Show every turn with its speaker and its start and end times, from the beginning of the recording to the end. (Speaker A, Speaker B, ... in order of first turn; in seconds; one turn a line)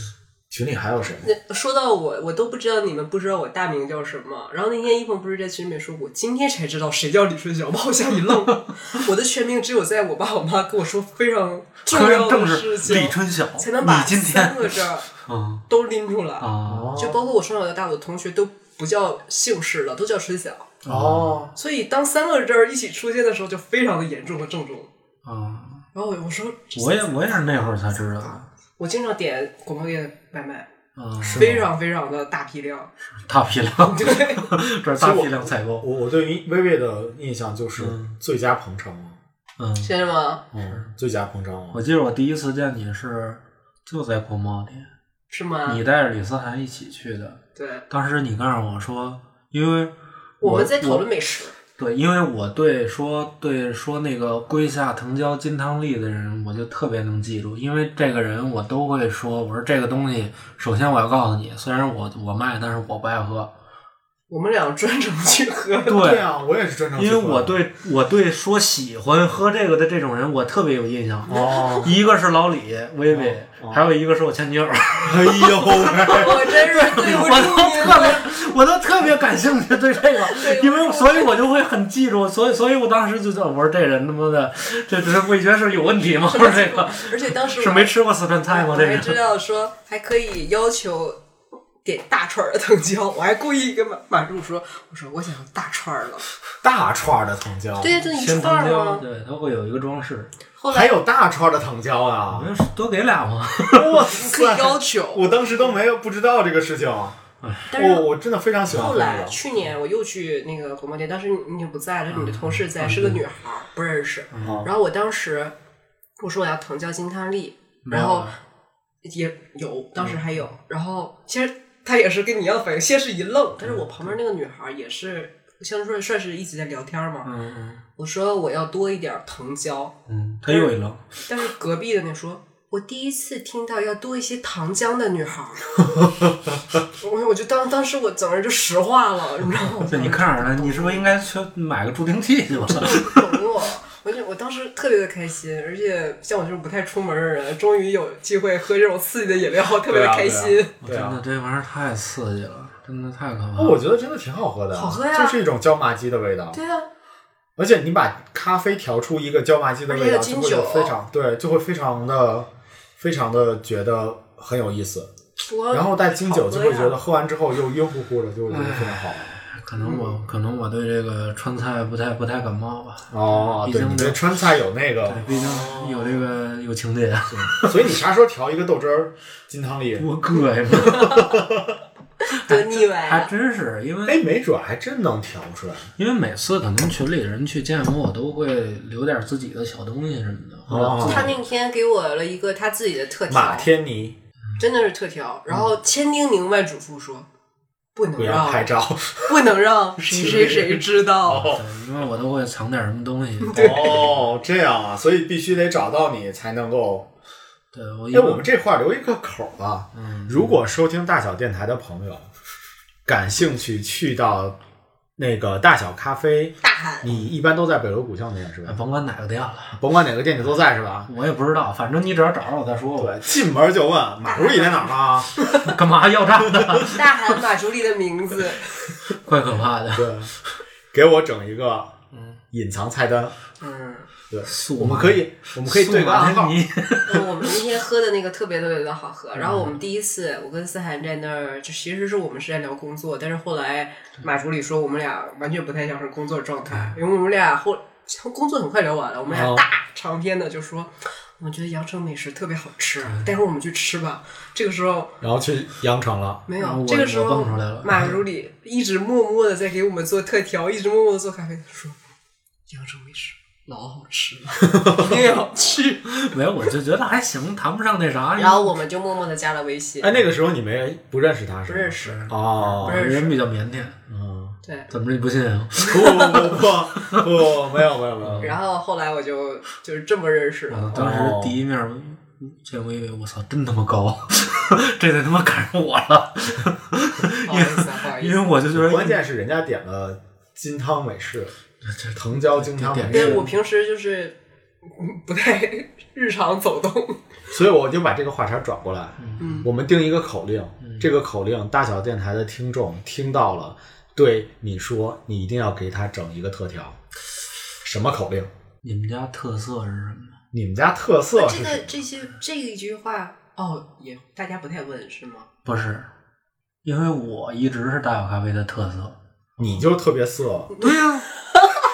Speaker A: 0.5-1.3
Speaker B: 1.2-15.1
Speaker C: 11.9-15.7
Speaker B: 15.7-20.7
Speaker C: 16.4-17.0
Speaker A: 16.7-17.2
Speaker C: 20.8-21.4
Speaker A: 20.9-21.5
Speaker B: 21.6-24.9
Speaker C: 25.2-25.9
Speaker B: 25.9-28.3
Speaker C: 26.8-28.5
Speaker B: 28.8-30.7
Speaker C: 31.0-31.6
Speaker A: 31.2-31.7
Speaker B: 31.3-32.9
Speaker C: 33.2-35.9
Speaker B: 33.8-34.5
Speaker A: 35.0-39.2
Speaker C: 37.8-38.1
Speaker C: 39.6-39.9
Speaker B: 39.8-40.4
Speaker A: 40.5-41.8
Speaker C: 41.7-44.9
Speaker B: 45.3-45.8
Speaker C: 45.7-51.1
Speaker B: 47.6-47.9
Speaker B: 50.4-51.5
Speaker C: 51.8-63.5
Speaker B: 64.3-66.0
Speaker C: 65.9-66.3
Speaker A: 66.0-67.6
Speaker C: 67.0-89.2
Speaker A: 71.3-71.9
Speaker B: 71.3-71.9
Speaker A: 73.1-73.8
Speaker A: 75.0-76.5
Speaker B: 76.0-78.3
Speaker B: 80.2-81.3
Speaker B: 86.3-91.2
Speaker B: 91.8-96.3
Speaker A: 96.6-97.9
Speaker B: 97.8-99.0
Speaker C: 98.0-100.3
Speaker B: 100.6-101.0
Speaker A: 100.7-102.5
Speaker C: 102.3-104.0
Speaker A: 103.7-107.2
Speaker B: 104.1-105.7
Speaker C: 107.4-107.7
Speaker B: 107.7-108.0
Speaker A: 107.7-109.4
Speaker B: 108.7-115.5
Speaker C: 112.1-113.2
Speaker C: 114.3-114.7
Speaker A: 114.4-114.7
Speaker B: 116.2-118.4
Speaker C: 117.8-118.4
Speaker B: 119.0-127.3
Speaker C: 123.6-124.1
Speaker C: 127.2-127.8
Speaker B: 128.0-129.9
Speaker C: 130.1-131.1
Speaker B: 130.5-130.8
Speaker B: 131.3-135.9
Speaker B: 136.9-141.1
Speaker C: 139.8-143.3
Speaker B: 142.6-150.7
Speaker A: 149.8-151.2
Speaker C: 150.8-153.8
Speaker A: 153.6-156.6
Speaker B: 154.7-155.4
Speaker B: 156.5-156.9
Speaker A: 157.6-165.1
Speaker B: 159.9-160.9
Speaker B: 165.5-167.0
Speaker A: 165.7-169.4
Speaker C: 168.5-174.2
Speaker B: 169.8-170.2
Speaker A: 173.1-175.5
Speaker C: 175.1-177.8
Speaker A: 177.6-180.1
Speaker C: 180.0-181.3
Speaker B: 180.8-181.3
Speaker A: 180.9-181.8
Speaker B: 182.3-183.3
Speaker C: 182.4-184.2
Speaker A: 184.1-185.9
Speaker C: 186.0-191.4
Speaker A: 190.7-191.3
Speaker B: 191.0-193.7
Speaker A: 193.3-194.2
Speaker B: 194.6-197.3
Speaker B: 197.9-198.7
Speaker A: 198.2-199.4
Speaker B: 199.2-201.5
Speaker A: 200.1-201.7
Speaker C: 201.3-204.1
Speaker B: 203.5-203.9
Speaker A: 203.5-207.1
Speaker C: 207.7-208.4
Speaker A: 208.1-212.3
Speaker C: 209.9-210.6
Speaker A: 213.1-214.6
Speaker A: 215.2-218.8
Speaker B: 216.6-217.1
Speaker C: 218.7-219.8
Speaker A: 219.8-221.1
Speaker C: 221.1-223.2
Speaker A: 223.0-225.3
Speaker B: 224.2-224.9
Speaker C: 225.5-227.4
Speaker B: 226.9-228.7
Speaker C: 229.1-230.6
Speaker A: 229.9-230.3
Speaker A: 230.9-232.0
Speaker C: 232.1-232.4
Speaker A: 232.5-233.4
Speaker B: 233.6-234.1
Speaker A: 234.3-236.6
Speaker C: 234.5-237.6
Speaker B: 237.1-255.2
Speaker C: 239.4-239.8
Speaker A: 249.3-249.6
Speaker A: 255.2-256.4
Speaker B: 256.5-262.0
Speaker C: 256.6-258.2
Speaker B: 262.7-266.4
Speaker C: 266.1-268.8
Speaker B: 268.4-270.1
Speaker A: 270.0-273.0
Speaker B: 271.7-273.4
Speaker C: 272.3-274.0
Speaker A: 274.1-274.6
Speaker B: 274.6-274.9
Speaker C: 274.9-277.2
Speaker A: 275.8-278.6
Speaker C: 278.2-278.6
Speaker B: 278.4-281.1
Speaker C: 280.7-289.2
Speaker A: 280.9-281.6
Speaker B: 287.4-288.4
Speaker A: 288.7-291.5
Speaker C: 291.8-293.5
Speaker A: 292.1-293.5
Speaker B: 293.1-297.2
Speaker A: 297.5-307.0
Speaker C: 299.2-299.7
Speaker B: 299.4-299.7
Speaker C: 300.8-301.1
Speaker A: 307.8-308.5
Speaker C: 308.8-310.4
Speaker A: 310.5-312.0
Speaker B: 311.3-315.5
Speaker C: 315.6-316.1
Speaker C: 316.8-319.7
Speaker A: 319.6-320.8
Speaker C: 320.8-321.3
Speaker B: 321.5-321.8